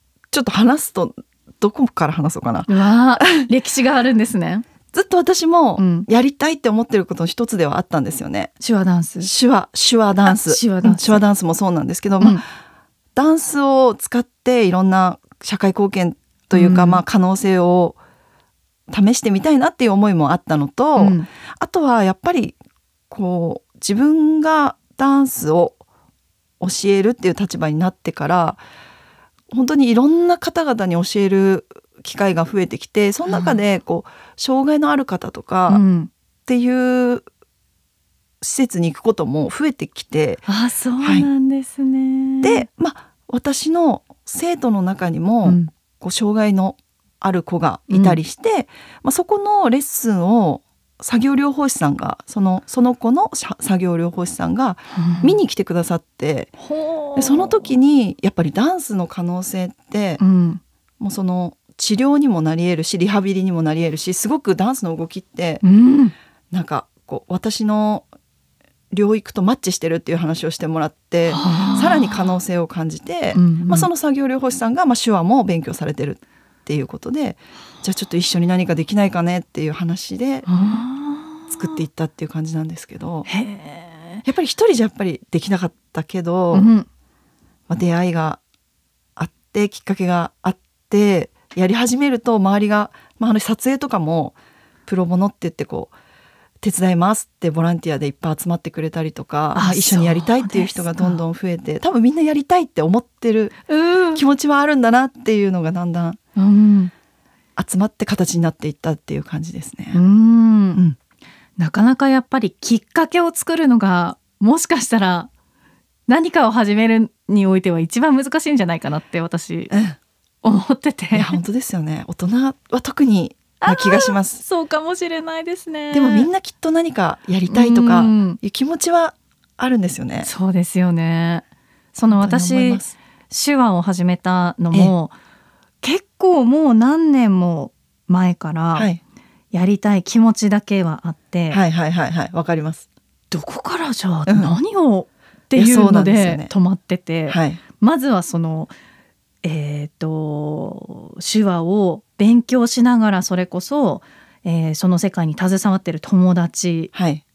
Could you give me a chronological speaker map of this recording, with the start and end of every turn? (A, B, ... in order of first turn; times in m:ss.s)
0:00.3-0:03.5 A
0:02.7-0:04.7 B
0:04.9-0:08.5 A
0:05.8-0:06.1 B
0:08.6-0:09.3 B
0:09.2-0:12.4 A
0:10.2-0:11.2 B
0:13.2-0:18.0 A
0:16.5-0:17.0 B
0:18.9-0:22.6 A
0:21.0-0:21.3 B
0:23.1-0:25.8 A
0:26.6-0:28.6 A
0:29.5-0:35.8 A
0:33.3-0:33.6 B
0:35.7-0:36.1 B
0:36.5-0:37.2 A
0:38.4-0:40.4 A
0:40.5-0:42.7 B
0:41.0-0:41.3 A
0:42.4-0:56.5 A
0:45.4-0:45.7 B
0:47.9-0:48.2 B
0:54.9-0:55.4 B
0:56.6-0:57.7 B
0:57.2-1:00.2 A
1:00.2-1:00.6 B
1:01.0-1:05.6 A
1:05.6-1:06.1 B
1:06.5-1:08.1 A
1:08.9-1:20.6 A
1:11.3-1:12.2 B
1:13.3-1:13.9 B
1:20.5-1:21.8 B
1:21.5-1:23.3 A
1:23.3-1:24.2 B
1:24.3-1:26.7 A
1:26.5-1:26.9 B
1:27.7-1:28.4 A
1:29.2-1:34.4 A
1:34.9-1:35.9 A
1:36.6-1:43.6 A
1:39.6-1:41.2 B
1:43.7-1:44.2 B
1:44.1-1:46.2 A
1:46.4-1:46.9 B
1:47.6-1:50.0 A
1:49.9-1:50.8 B
1:51.6-1:55.3 B
1:56.1-1:59.7 B
1:59.7-2:00.0 A
2:00.4-2:01.4 B
2:01.1-2:04.4 A
2:03.6-2:06.3 B
2:05.9-2:10.3 A
2:07.5-2:08.4 B
2:10.2-2:15.1 B
2:12.1-2:13.0 A
2:15.8-2:18.9 B
2:18.8-2:19.0 A
2:19.5-2:21.6 B
2:21.5-2:22.9 A
2:23.3-2:28.7 B
2:24.3-2:24.6 A
2:25.6-2:26.5 A
2:27.3-2:27.6 A
2:29.4-2:36.9 B
2:36.9-2:37.2 A